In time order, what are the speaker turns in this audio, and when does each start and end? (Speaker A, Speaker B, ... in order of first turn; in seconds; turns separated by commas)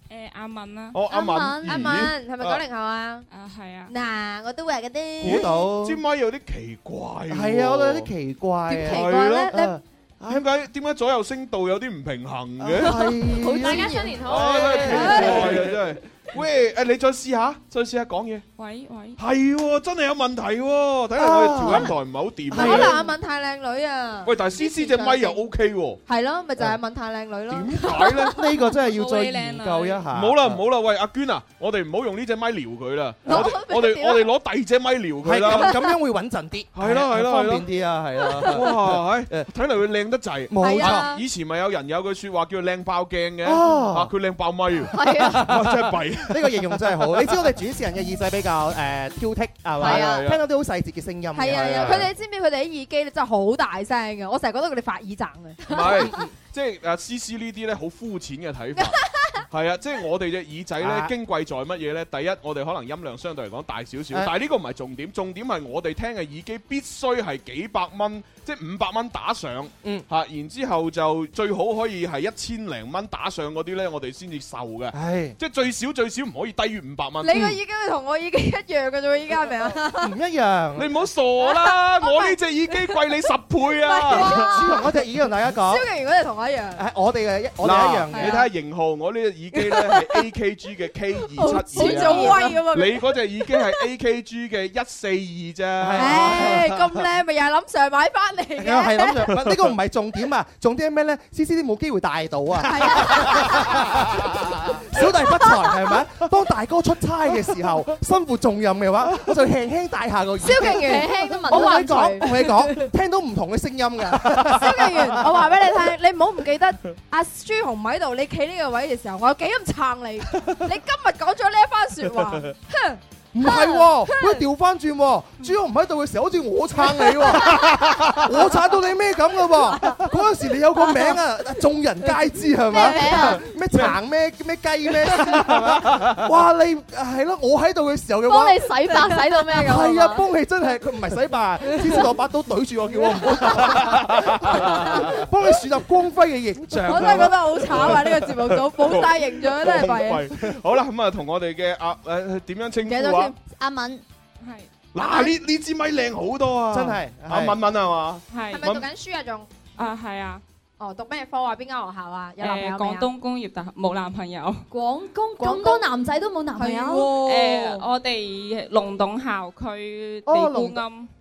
Speaker A: 0.1-1.0, Speaker B: 0.9-2.6, Speaker C: 1.1-3.2, Speaker A: 3.3-3.9, Speaker C: 3.9-5.5, Speaker D: 5.2-6.0, Speaker B: 5.2-8.1, Speaker D: 7.3-10.4, Speaker C: 8.7-9.7, Speaker B: 8.9-9.6, Speaker B: 10.3-13.1, Speaker D: 12.6-15.8, Speaker C: 13.4-15.6, Speaker E: 13.6-14.2, Speaker B: 14.3-18.4, Speaker A: 18.6-19.2, Speaker B: 19.2-23.0, Speaker D: 21.2-21.9, Speaker D: 22.5-23.0, Speaker C: 22.6-25.4, Speaker B: 24.3-26.0, Speaker C: 26.1-28.3, Speaker B: 27.5-28.4, Speaker D: 28.3-30.6, Speaker A: 28.7-30.1, Speaker B: 30.1-35.8, Speaker C: 33.3-34.3, Speaker D: 35.2-39.5, Speaker B: 36.8-37.7, Speaker B: 38.5-46.7, Speaker D: 40.5-41.1, Speaker C: 40.6-41.2, Speaker D: 43.4-44.1, Speaker E: 44.9-45.5, Speaker D: 45.3-52.1, Speaker E: 49.8-50.2, Speaker B: 49.8-50.4, Speaker C: 51.3-56.1, Speaker B: 55.7-77.5, Speaker D: 60.8-61.1, Speaker D: 74.9-75.4, Speaker C: 77.2-80.1, Speaker D: 80.0-80.9, Speaker B: 80.8-84.5, Speaker C: 81.4-82.4, Speaker C: 83.8-84.8, Speaker D: 84.1-85.8, Speaker C: 85.6-86.8, Speaker D: 86.8-88.4, Speaker B: 87.6-96.7, Speaker C: 88.1-88.4, Speaker C: 89.6-90.2, Speaker C: 91.4-93.1, Speaker D: 95.8-96.7, Speaker C: 96.0-99.3, Speaker D: 98.6-115.4, Speaker B: 99.3-99.6, Speaker C: 102.7-103.8, Speaker C: 110.4-112.8, Speaker E: 110.7-112.2, Speaker C: 114.5-124.5, Speaker D: 123.3-138.7, Speaker C: 126.9-127.7, Speaker C: 129.7-130.0, Speaker E: 132.7-133.4, Speaker C: 132.7-133.3, Speaker B: 135.2-136.2, Speaker E: 138.3-140.2, Speaker C: 138.9-139.2, Speaker D: 139.5-147.4, Speaker B: 143.5-144.8, Speaker C: 144.7-145.2, Speaker C: 146.9-150.2, Speaker B: 147.0-153.3, Speaker C: 152.9-153.3, Speaker E: 153.6-154.0, Speaker A: 154.4-154.7, Speaker B: 154.9-158.9, Speaker D: 156.7-157.6, Speaker A: 158.3-158.6, Speaker C: 158.5-159.5, Speaker A: 159.8-160.4, Speaker C: 160.8-163.1, Speaker A: 162.4-164.7, Speaker E: 164.7-166.9, Speaker C: 165.4-165.9, Speaker C: 166.6-167.8, Speaker A: 167.2-171.1, Speaker D: 170.3-170.8